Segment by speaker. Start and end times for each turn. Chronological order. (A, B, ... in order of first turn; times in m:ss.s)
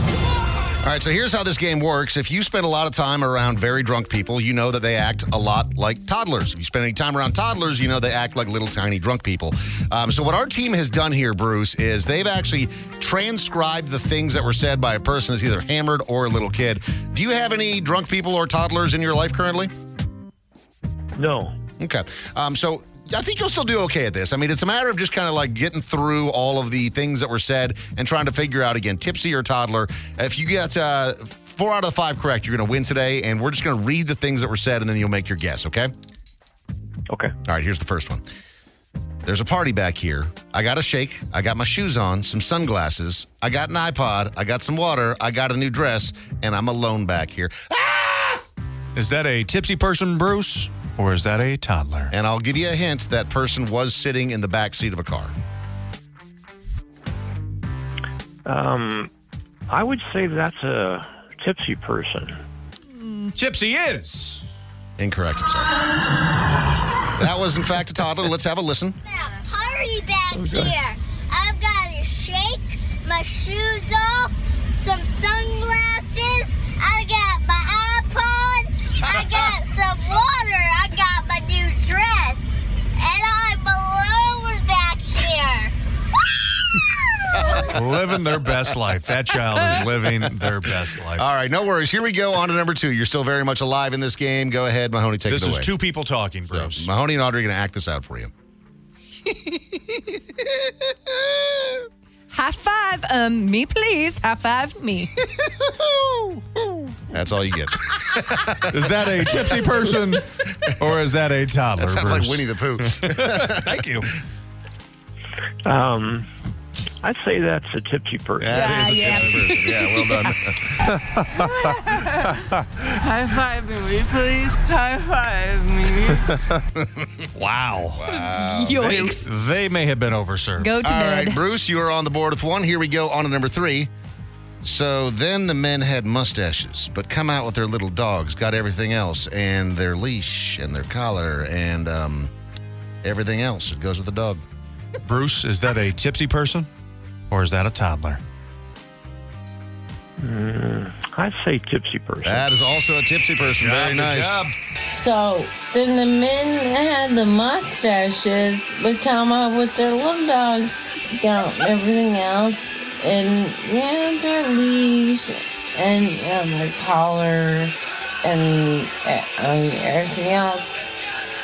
0:00.8-0:19.7 A
0:21.2-0:21.5 B
0:21.8-0:35.9 A
0:37.1-0:37.3 B
0:37.4-0:38.2 A
0:39.2-0:48.4 A
0:48.9-0:52.1 C
0:52.1-0:55.3 A
0:58.4-0:59.1 B
0:59.7-1:02.4 B
1:03.3-1:04.5 C
1:05.0-1:05.8 A
1:07.2-1:09.0 A
1:09.0-1:25.7 D
1:27.7-1:31.3 C
1:31.1-1:35.7 A
1:35.3-1:36.9 C
1:36.5-1:38.3 A
1:39.2-1:41.8 A
1:42.3-1:45.1 E
1:45.2-1:46.4 A
1:47.1-1:49.8 A
1:48.7-1:54.1 C
1:51.8-1:53.8 A
1:55.6-1:56.3 B
1:57.0-1:58.9 B
1:58.4-2:00.8 A
1:58.5-1:59.6 E
2:03.0-2:06.2 F
2:06.8-2:07.2 A
2:07.3-2:08.0 C
2:08.0-2:08.9 A
2:08.3-2:09.2 E
2:08.8-2:10.7 C
2:10.6-2:11.4 E
2:10.8-2:13.9 A
2:14.6-2:22.3 A
2:23.0-2:24.4 A
2:25.0-2:26.7 C
2:27.3-2:28.2 C
2:30.2-2:32.5 B
2:32.2-2:34.4 A
2:33.4-2:34.5 C
2:34.9-2:50.9 G